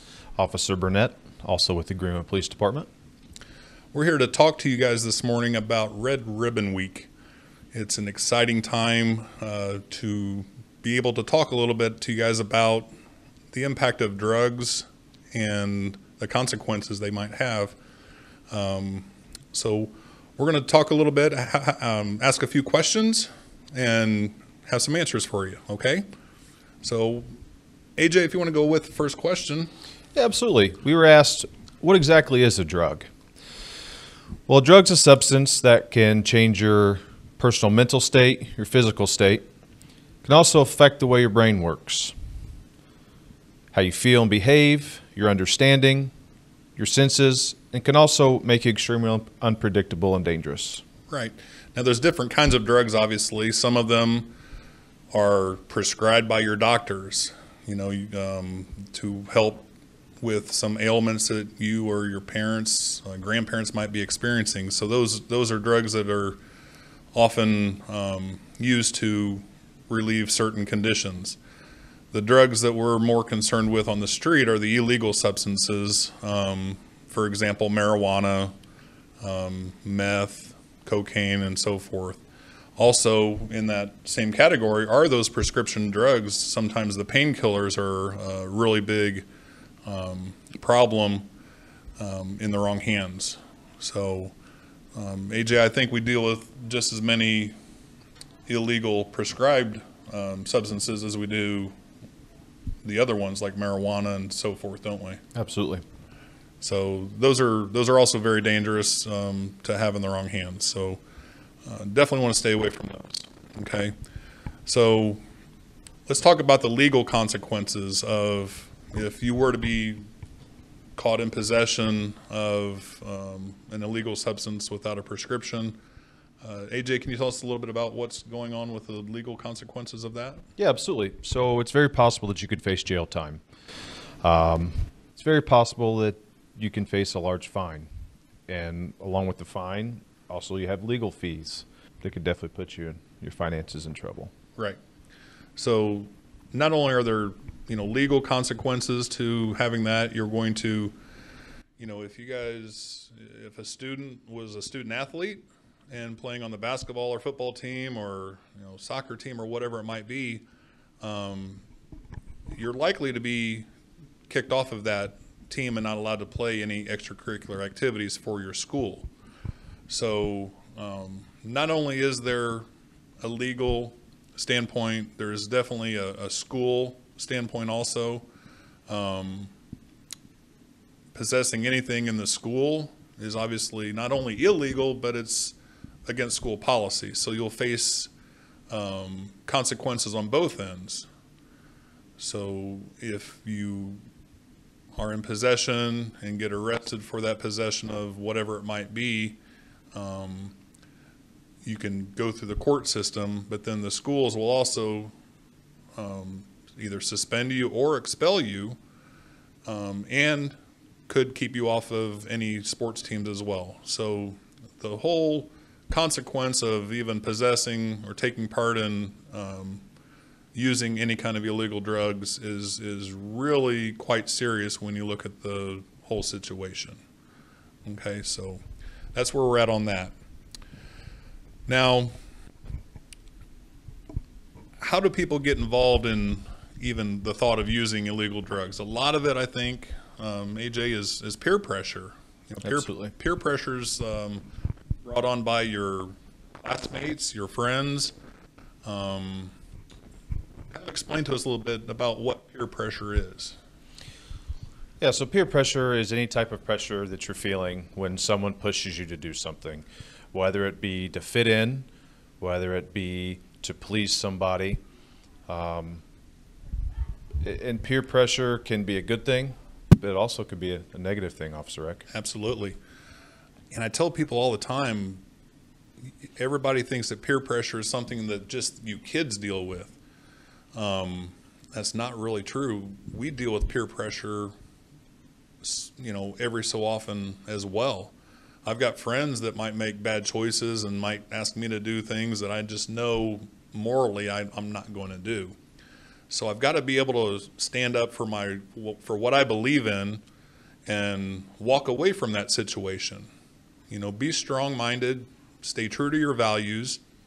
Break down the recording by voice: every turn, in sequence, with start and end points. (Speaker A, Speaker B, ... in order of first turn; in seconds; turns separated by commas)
Speaker A: 0.4-2.9, Speaker B: 3.9-7.1, Speaker B: 7.7-12.9, Speaker B: 13.5-17.8, Speaker B: 18.5-26.1, Speaker B: 26.8-27.3, Speaker B: 28.0-29.7, Speaker A: 30.1-33.1, Speaker A: 34.5-39.5, Speaker A: 40.2-42.1, Speaker A: 43.7-46.1, Speaker A: 46.8-50.8, Speaker B: 51.1-54.3, Speaker B: 55.1-59.7, Speaker B: 60.2-66.4, Speaker B: 67.1-71.4, Speaker B: 72.1-78.5, Speaker B: 79.2-82.2, Speaker B: 82.8-89.3, Speaker B: 89.9-91.3, Speaker B: 92.0-94.3, Speaker B: 95.0-97.5, Speaker B: 98.5-101.7, Speaker B: 102.8-105.2, Speaker A: 105.3-105.8, Speaker B: 106.6-111.0, Speaker B: 111.7-113.9, Speaker B: 114.7-115.2, Speaker B: 116.1-120.0, Speaker B: 121.0-125.8, Speaker B: 126.4-130.4, Speaker A: 130.6-133.4, Speaker A: 134.2-137.9, Speaker A: 138.5-144.3, Speaker B: 145.6-151.0, Speaker B: 151.8-160.5, Speaker B: 161.0-161.7, Speaker B: 162.5-163.7, Speaker B: 164.3-169.1, Speaker B: 169.9-172.7, Speaker B: 173.2-178.3, Speaker B: 178.9-179.5, Speaker B: 181.1-188.1, Speaker B: 188.7-191.1, Speaker B: 192.2-194.0, Speaker B: 195.0-199.4, Speaker B: 199.9-200.6, Speaker B: 201.6-205.1, Speaker B: 206.0-208.8, Speaker B: 209.7-210.6, Speaker B: 211.1-219.8, Speaker B: 220.5-227.0, Speaker B: 227.8-228.6, Speaker B: 229.1-230.2, Speaker B: 231.7-232.1, Speaker B: 234.8-244.5, Speaker A: 242.6-243.1, Speaker B: 245.1-248.2, Speaker B: 248.8-249.5, Speaker B: 250.7-253.6, Speaker A: 255.0-261.9, Speaker A: 262.4-264.8, Speaker A: 265.5-266.0, Speaker A: 267.4-272.1, Speaker B: 272.1-272.8, Speaker B: 273.7-275.2, Speaker B: 276.4-280.0, Speaker B: 280.7-284.5, Speaker B: 285.6-288.1, Speaker B: 288.6-295.6, Speaker B: 296.3-300.2, Speaker B: 300.9-303.3, Speaker B: 303.9-307.0